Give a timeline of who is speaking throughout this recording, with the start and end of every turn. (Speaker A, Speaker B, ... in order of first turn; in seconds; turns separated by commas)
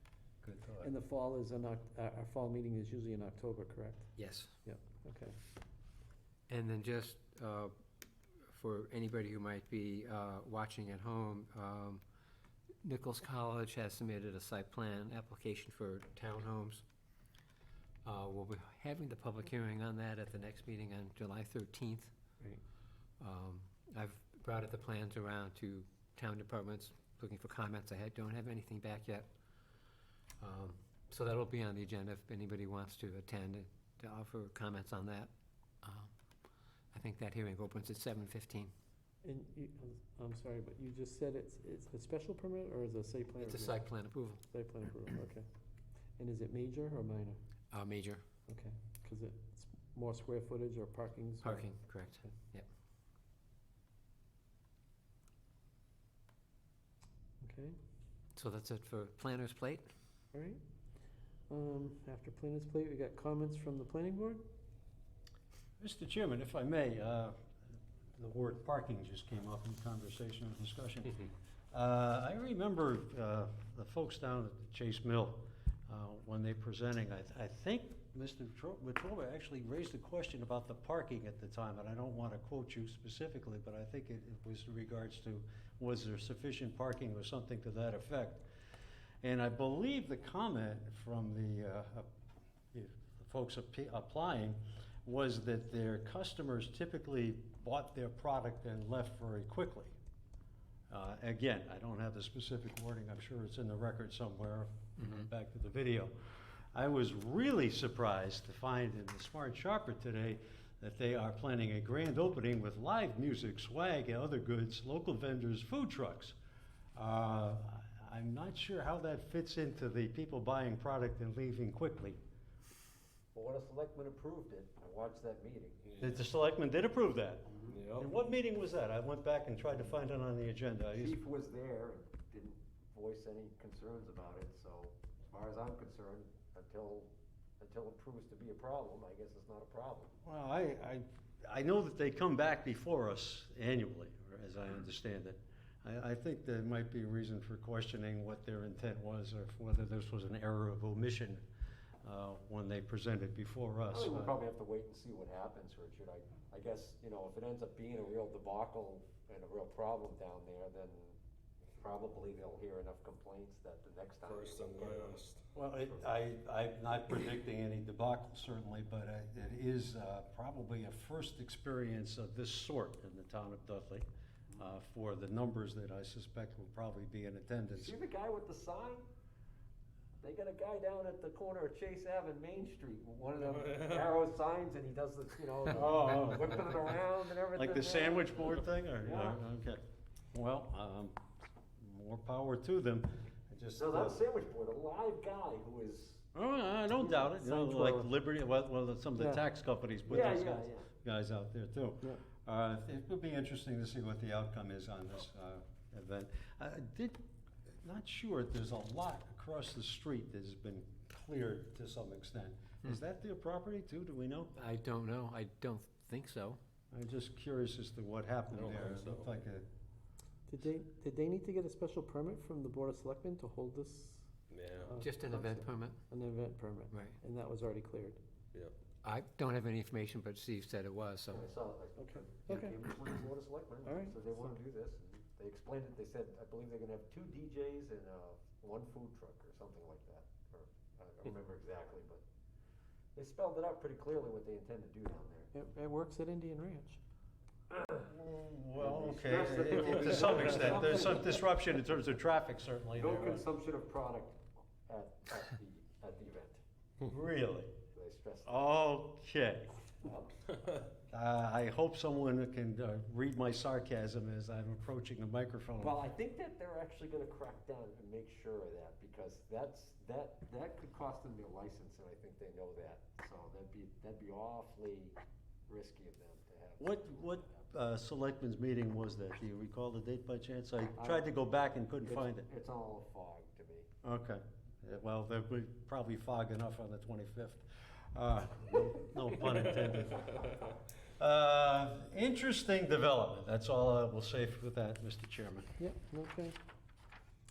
Speaker A: 0.4-0.9, Speaker B: 0.8-4.1, Speaker C: 4.2-4.5, Speaker B: 4.6-5.4, Speaker C: 6.5-7.7, Speaker C: 8.4-12.0, Speaker C: 12.8-16.8, Speaker C: 18.0-22.1, Speaker C: 23.2-29.3, Speaker C: 30.4-35.3, Speaker C: 35.8-36.1, Speaker C: 36.9-38.7, Speaker B: 39.2-43.8, Speaker C: 43.4-44.4, Speaker B: 44.5-45.4, Speaker B: 46.2-47.4, Speaker C: 47.7-48.2, Speaker B: 48.5-51.6, Speaker C: 51.4-52.6, Speaker B: 57.4-57.8, Speaker C: 58.4-59.9, Speaker B: 60.3-60.6, Speaker B: 61.5-64.4, Speaker A: 65.8-67.3, Speaker A: 68.2-88.4, Speaker A: 89.2-92.0, Speaker A: 92.7-99.9, Speaker A: 100.9-106.1, Speaker C: 105.0-105.3, Speaker A: 106.7-116.3, Speaker A: 117.0-122.2, Speaker D: 123.3-125.8, Speaker A: 126.0-131.2, Speaker E: 127.7-128.1, Speaker D: 131.0-140.1, Speaker A: 140.2-151.4, Speaker A: 152.0-154.4, Speaker D: 153.9-161.2, Speaker D: 161.7-165.2, Speaker E: 164.2-165.4, Speaker A: 165.5-177.9, Speaker D: 165.7-166.1, Speaker D: 177.7-179.1, Speaker D: 180.2-189.4, Speaker A: 185.7-186.8, Speaker A: 187.5-189.8, Speaker A: 190.3-191.2, Speaker A: 191.8-194.2, Speaker D: 193.8-196.3, Speaker A: 196.3-207.2, Speaker D: 196.9-197.6, Speaker B: 197.4-198.1, Speaker B: 199.2-199.4, Speaker D: 200.1-200.9, Speaker A: 207.8-214.5, Speaker C: 214.6-216.6, Speaker A: 216.9-219.7, Speaker E: 218.5-219.3, Speaker B: 220.5-224.3, Speaker E: 224.5-225.0, Speaker B: 224.9-228.2, Speaker C: 225.0-226.0, Speaker C: 226.9-227.2, Speaker C: 229.0-231.5, Speaker D: 231.3-242.2, Speaker B: 232.0-232.8, Speaker B: 233.8-234.6, Speaker D: 243.1-245.5, Speaker B: 245.5-247.0, Speaker A: 248.1-253.4, Speaker D: 248.8-251.4, Speaker D: 252.9-256.6, Speaker A: 257.0-257.8, Speaker D: 257.9-258.6, Speaker A: 258.4-259.7, Speaker D: 260.0-260.4, Speaker A: 261.0-266.0, Speaker D: 265.8-277.6, Speaker A: 276.8-282.4, Speaker D: 281.0-281.3, Speaker D: 282.0-283.9, Speaker A: 284.0-290.4, Speaker A: 291.2-295.7, Speaker B: 295.8-296.6